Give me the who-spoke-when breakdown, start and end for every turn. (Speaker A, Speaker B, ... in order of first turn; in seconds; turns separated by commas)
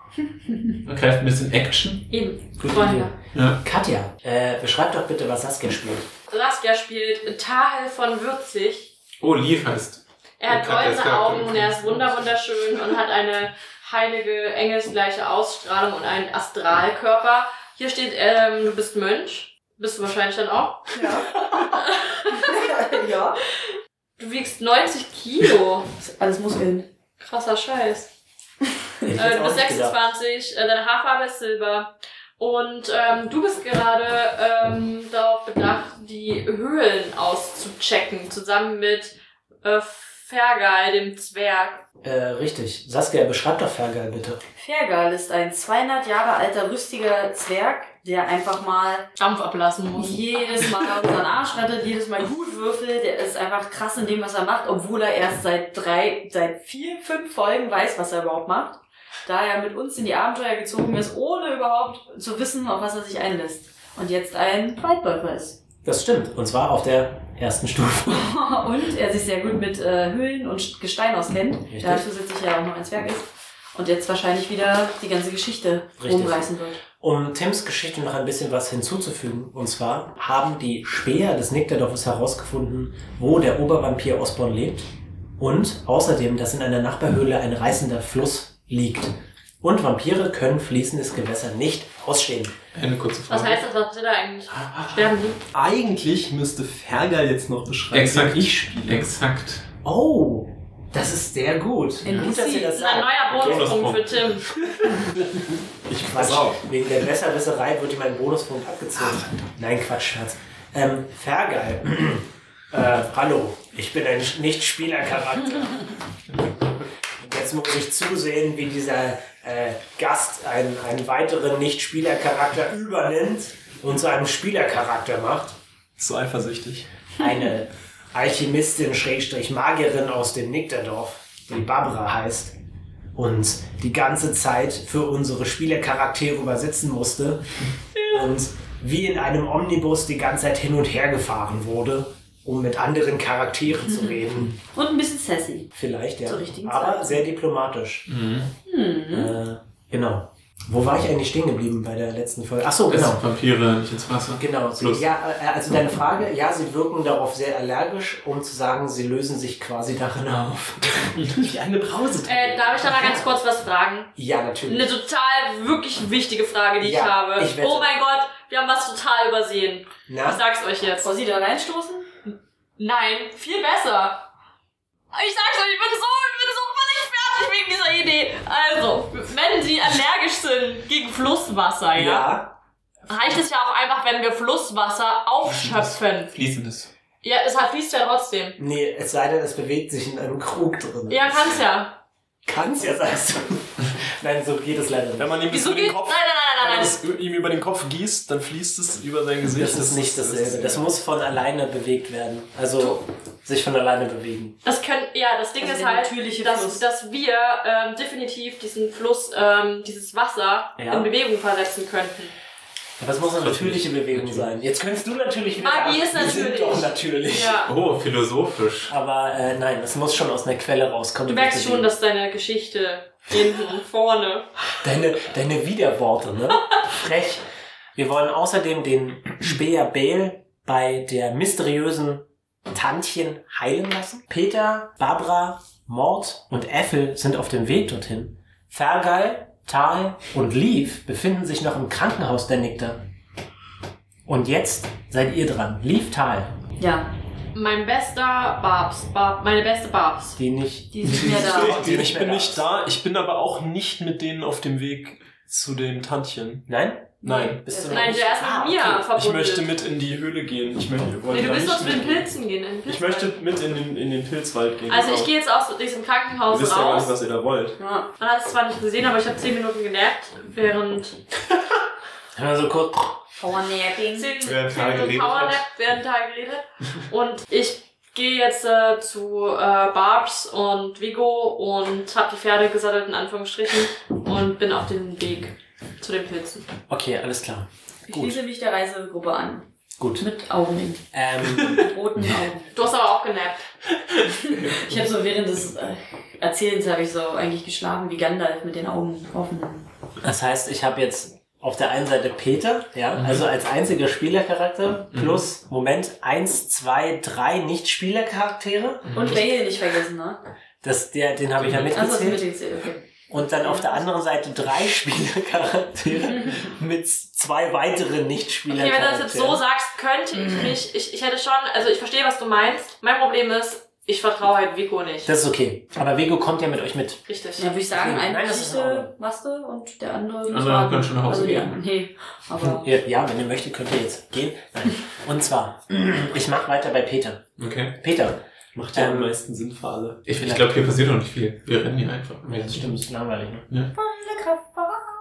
Speaker A: 0.8-2.1, Speaker B: 2.1-3.1, Speaker C: 2.6-6.1, Speaker B: 6.3-8.9, Speaker A: 9.2-12.3, Speaker B: 10.4-21.0, Speaker D: 20.9-21.8, Speaker B: 21.6-22.9, Speaker D: 22.3-23.4, Speaker B: 24.2-25.9, Speaker D: 26.0-26.9, Speaker B: 27.2-28.1, Speaker C: 29.1-30.0, Speaker B: 29.1-41.8, Speaker C: 42.0-44.4, Speaker D: 44.6-49.1, Speaker B: 49.2-50.9, Speaker D: 50.0-65.6, Speaker C: 65.8-68.3, Speaker D: 68.1-76.8, Speaker C: 71.7-72.0, Speaker C: 76.0-92.6, Speaker A: 92.7-93.6, Speaker B: 93.3-95.4, Speaker A: 94.6-95.0, Speaker E: 95.5-99.1, Speaker A: 97.9-99.7, Speaker C: 99.8-103.7, Speaker B: 102.0-104.5, Speaker A: 103.3-104.2, Speaker E: 104.8-106.6, Speaker C: 105.9-115.9, Speaker C: 117.2-125.6, Speaker E: 126.0-126.9, Speaker C: 127.2-132.6, Speaker C: 133.2-137.4, Speaker C: 138.1-144.6, Speaker D: 144.7-145.7, Speaker C: 145.8-148.1, Speaker D: 146.2-147.2, Speaker A: 148.1-148.5, Speaker D: 148.7-149.3, Speaker C: 149.1-153.2, Speaker A: 152.9-155.1, Speaker C: 154.4-163.3, Speaker B: 162.2-164.1, Speaker C: 164.2-164.9, Speaker B: 164.7-171.1, Speaker C: 166.8-167.9, Speaker C: 170.1-170.4, Speaker D: 171.0-172.1, Speaker B: 172.3-174.3, Speaker B: 175.1-182.4, Speaker C: 181.9-182.6, Speaker B: 183.1-186.3, Speaker A: 185.5-186.9, Speaker B: 187.2-188.6, Speaker C: 188.6-191.6, Speaker B: 191.1-192.0, Speaker C: 192.5-195.4, Speaker E: 195.2-200.9, Speaker B: 195.5-197.0, Speaker C: 199.4-204.6, Speaker B: 204.6-212.3, Speaker D: 205.6-206.8, Speaker C: 210.8-211.1, Speaker C: 213.0-217.6, Speaker A: 213.4-214.5, Speaker B: 215.6-217.7, Speaker A: 217.7-218.9, Speaker C: 218.9-221.9, Speaker B: 221.3-224.5, Speaker C: 224.8-227.4, Speaker C: 228.0-243.0, Speaker C: 244.3-246.5, Speaker D: 246.8-247.1, Speaker B: 247.6-250.4, Speaker C: 250.4-252.7, Speaker D: 250.9-251.8, Speaker E: 251.2-256.7, Speaker C: 256.7-259.0, Speaker E: 257.2-257.6, Speaker B: 257.2-259.7, Speaker D: 257.7-258.2, Speaker E: 259.0-262.3, Speaker B: 261.3-263.3, Speaker E: 262.9-265.3, Speaker B: 264.9-267.1, Speaker E: 266.5-267.8, Speaker D: 267.8-268.1, Speaker B: 268.2-271.2, Speaker C: 272.4-273.2, Speaker D: 273.4-274.3, Speaker B: 274.1-286.7, Speaker A: 274.4-275.6, Speaker C: 286.9-288.4, Speaker D: 288.1-289.7, Speaker C: 290.0-290.2, Speaker D: 290.2-291.0, Speaker C: 291.1-291.9, Speaker D: 291.6-292.8, Speaker B: 292.7-293.6, Speaker D: 294.4-299.9, Speaker A: 294.4-295.0, Speaker C: 300.2-309.6, Speaker A: 303.2-303.4, Speaker A: 305.1-305.4, Speaker A: 309.1-309.5, Speaker D: 309.1-310.4, Speaker C: 310.8-312.5, Speaker A: 311.6-311.9, Speaker D: 311.9-314.1, Speaker C: 313.3-319.6, Speaker D: 316.3-316.6, Speaker B: 318.7-325.3, Speaker C: 325.3-327.2, Speaker B: 327.3-327.7, Speaker D: 327.6-332.9, Speaker C: 327.9-329.1, Speaker A: 330.5-331.8, Speaker C: 332.6-338.4, Speaker A: 337.6-338.0, Speaker E: 338.7-340.2, Speaker C: 338.9-339.4, Speaker A: 340.2-342.9, Speaker C: 340.4-340.8, Speaker C: 342.4-343.7, Speaker D: 344.0-345.0